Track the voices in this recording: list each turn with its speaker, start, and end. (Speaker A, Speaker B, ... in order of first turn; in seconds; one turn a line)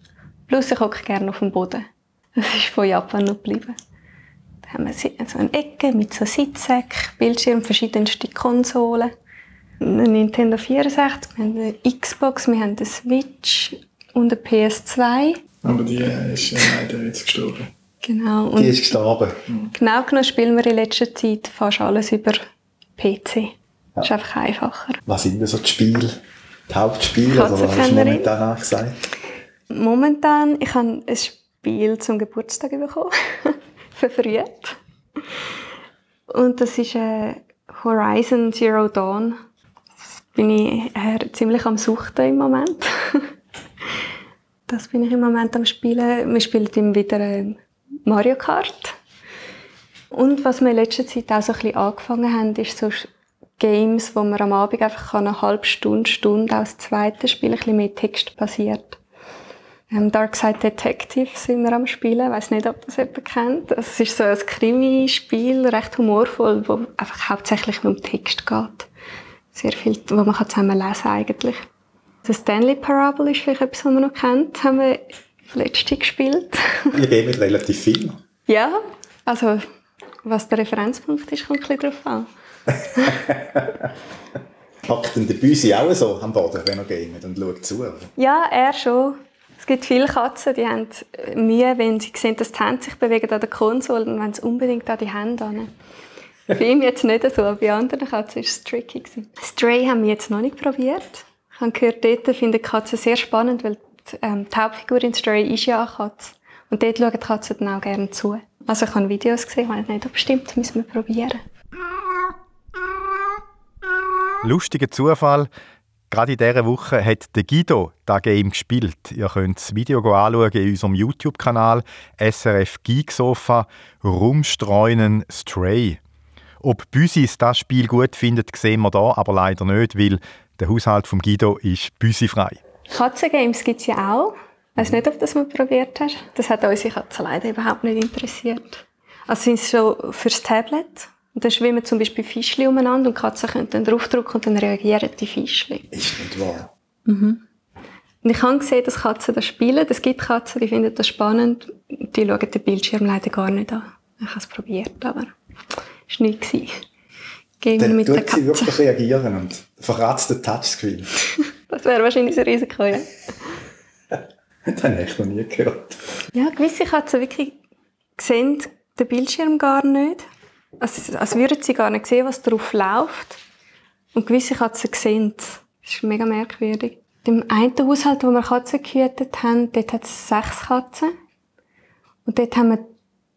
Speaker A: 0.5-3.8
Speaker A: 4.7-9.1
Speaker A: 9.8-15.4
Speaker B: 15.6-17.7
Speaker A: 18.0-18.9
Speaker C: 18.5-19.4
Speaker A: 19.8-22.4
Speaker A: 23.0-25.0
Speaker C: 25.1-26.2
Speaker C: 26.7-29.1
Speaker A: 27.3-28.3
Speaker A: 29.7-34.8
Speaker A: 36.3-39.4
Speaker A: 40.3-43.3
Speaker A: 44.7-49.0
Speaker A: 50.1-53.1
Speaker A: 53.6-59.0
Speaker A: 59.9-68.9
Speaker A: 69.5-71.7
Speaker A: 72.2-76.9
Speaker C: 76.9-78.2
Speaker A: 78.5-79.7
Speaker A: 80.2-82.3
Speaker C: 83.1-83.8
Speaker C: 84.8-88.1
Speaker A: 88.2-95.7
Speaker A: 96.5-111.4
Speaker C: 114.4-115.5
Speaker C: 116.1-126.0
Speaker C: 126.6-132.6
Speaker A: 132.9-145.9
Speaker C: 145.9-146.7
Speaker A: 147.1-147.4
Speaker A: 148.2-155.3
Speaker A: 156.1-156.8
Speaker A: 157.6-158.8
Speaker C: 157.8-161.1
Speaker A: 161.7-163.1
Speaker C: 164.1-166.0
Speaker A: 166.3-167.6
Speaker A: 168.2-170.2
Speaker A: 170.8-173.4
Speaker A: 174.1-181.1
Speaker A: 182.2-182.9